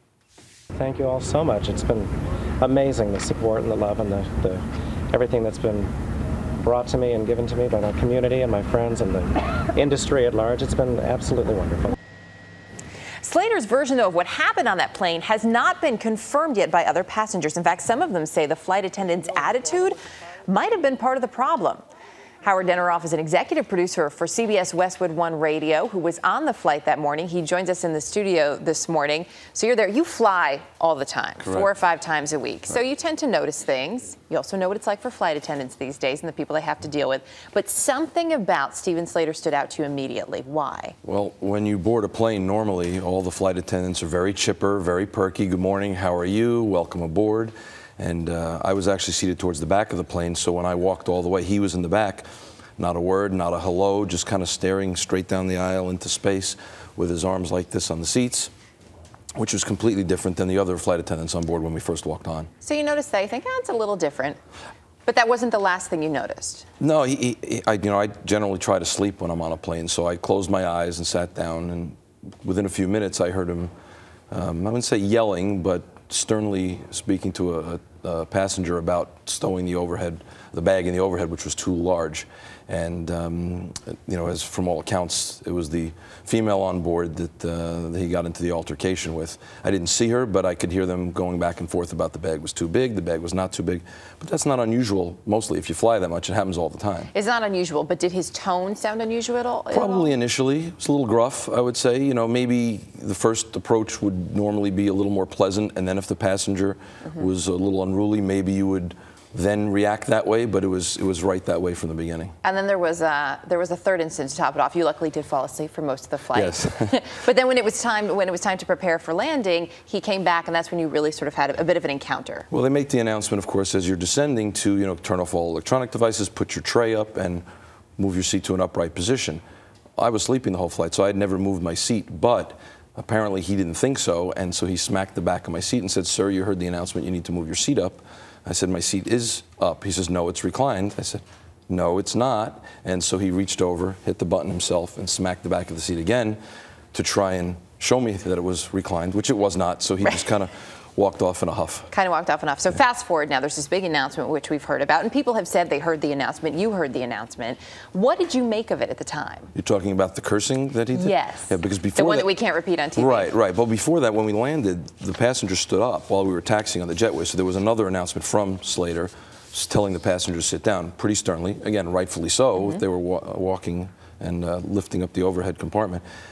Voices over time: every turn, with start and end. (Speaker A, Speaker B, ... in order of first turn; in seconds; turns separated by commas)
Speaker A: 0.7-5.9, Speaker A: 6.6-11.9, Speaker B: 13.2-21.8, Speaker B: 22.4-40.9, Speaker C: 41.0-52.2, Speaker C: 52.8-58.5, Speaker C: 59.4-62.5, Speaker B: 62.6-64.4, Speaker B: 65.0-66.7, Speaker C: 66.8-73.7, Speaker C: 74.3-97.1, Speaker B: 97.1-100.1, Speaker C: 99.7-112.3, Speaker B: 112.4-122.5, Speaker C: 116.3-117.0, Speaker C: 122.5-127.4, Speaker C: 128.0-129.4, Speaker C: 130.0-146.4, Speaker C: 146.9-151.9, Speaker B: 151.9-159.5, Speaker C: 159.5-162.3, Speaker B: 160.9-163.3, Speaker C: 162.9-176.0